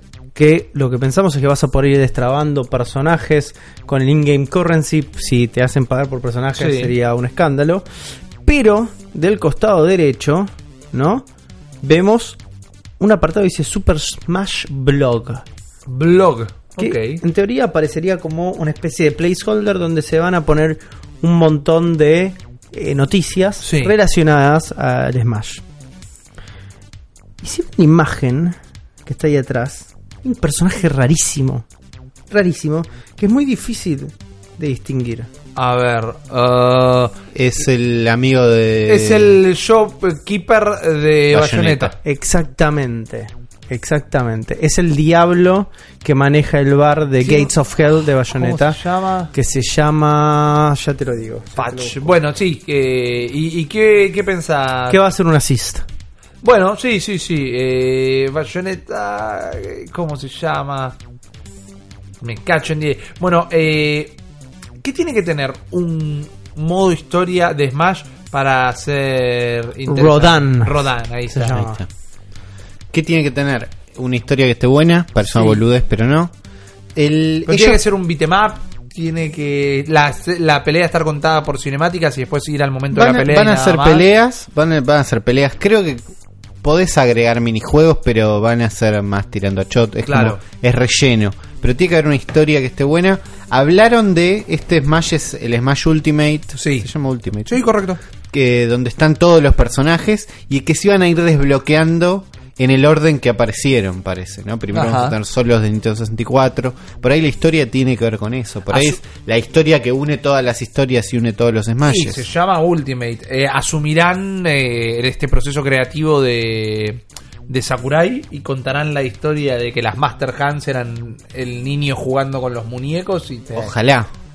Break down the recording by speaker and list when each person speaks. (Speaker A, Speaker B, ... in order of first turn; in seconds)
Speaker A: 0.3-7.9, 8.4-11.3, 11.8-12.4, 13.0-15.4, 16.8-25.6, 27.4-31.6, 32.3-35.3, 42.0-48.8, 49.3-52.1, 54.9-55.9, 69.9-71.8
Speaker B: 6.6-6.9, 15.9-17.2, 23.6-23.9, 35.6-37.1, 38.9-41.9, 47.2-47.5, 48.3-49.3, 51.6-55.0, 56.4-61.0, 62.2-64.2, 64.8-71.7, 75.2-75.6, 77.5-84.0, 90.0-90.4, 96.6-96.9, 97.5-98.0, 104.7-105.2, 108.7-109.0, 111.8-123.7
Speaker C: 37.3-39.4, 41.3-41.9, 71.5-71.9, 72.9-76.3, 77.0-77.8, 82.9-86.0, 86.6-97.6, 98.3-112.3, 123.5-124.1